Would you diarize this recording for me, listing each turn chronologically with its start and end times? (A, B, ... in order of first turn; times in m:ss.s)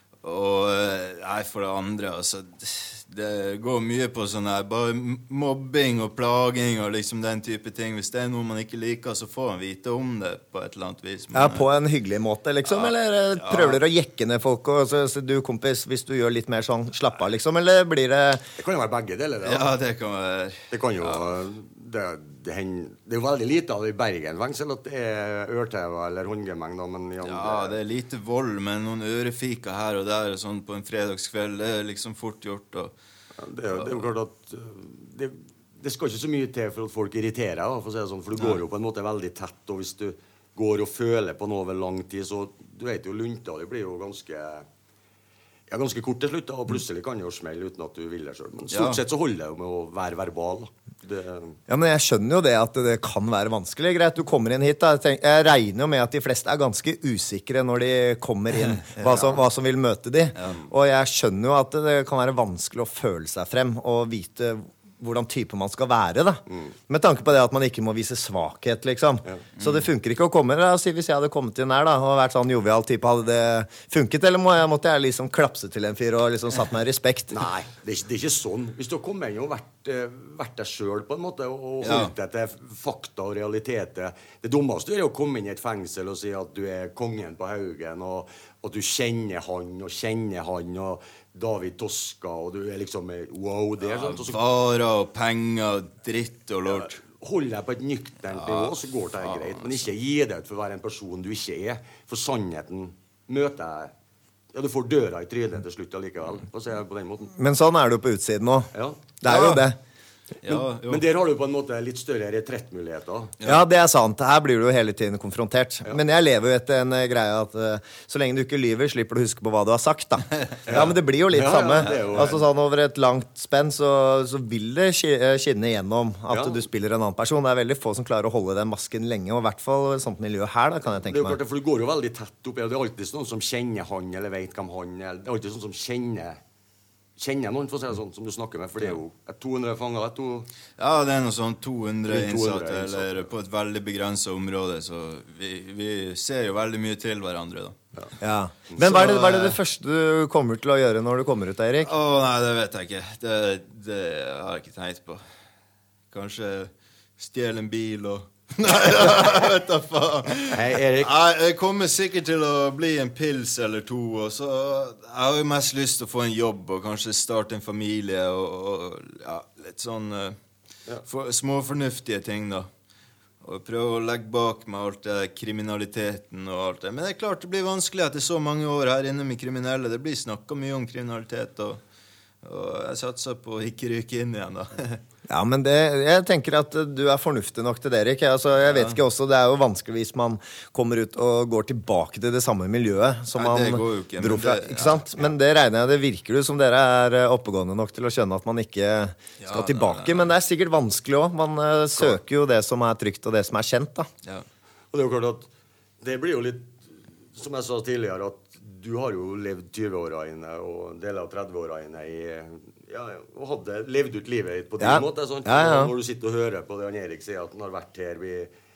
0:00.2-0:11.6 A
0:11.3-0:18.4 B
0:12.7-0:13.8 A
0:18.6-0:19.7 C
0:19.4-0:21.2 A
0:20.7-0:27.7 C
0:27.2-0:32.9 A
0:33.4-0:44.6 C
0:33.7-0:34.0 A
0:45.7-0:51.6 C
0:48.7-0:49.0 A
0:51.7-1:17.3 B
0:58.7-0:59.2 A
1:06.5-1:06.7 C
1:09.6-1:09.8 A
1:17.3-1:34.4 C
1:21.8-1:22.1 A
1:33.8-1:37.0 A
1:36.6-1:43.9 C
1:38.4-1:39.8 A
1:44.5-1:47.3 C
1:47.3-1:49.8 B
1:48.7-1:49.0 C
1:49.2-1:49.6 A
1:50.4-1:51.0 A
1:50.4-1:53.3 C
1:53.4-2:11.4 B
2:00.6-2:02.4 C
2:06.3-2:06.6 C
2:11.0-2:16.4 C
2:17.2-2:20.5 C
2:20.8-2:27.8 A
2:22.1-2:23.3 C
2:28.2-2:31.9 B
2:28.8-2:29.6 A
2:31.8-2:35.2 A
2:36.1-2:50.4 A
2:40.5-2:41.1 C
2:51.0-2:52.7 A
2:53.4-3:01.8 A
3:02.4-3:05.0 A
3:05.3-3:24.1 B
3:08.6-3:09.0 A
3:13.3-3:15.2 A
3:19.4-3:20.3 A
3:24.9-3:25.5 C
3:26.0-3:38.5 C
3:34.8-3:35.9 B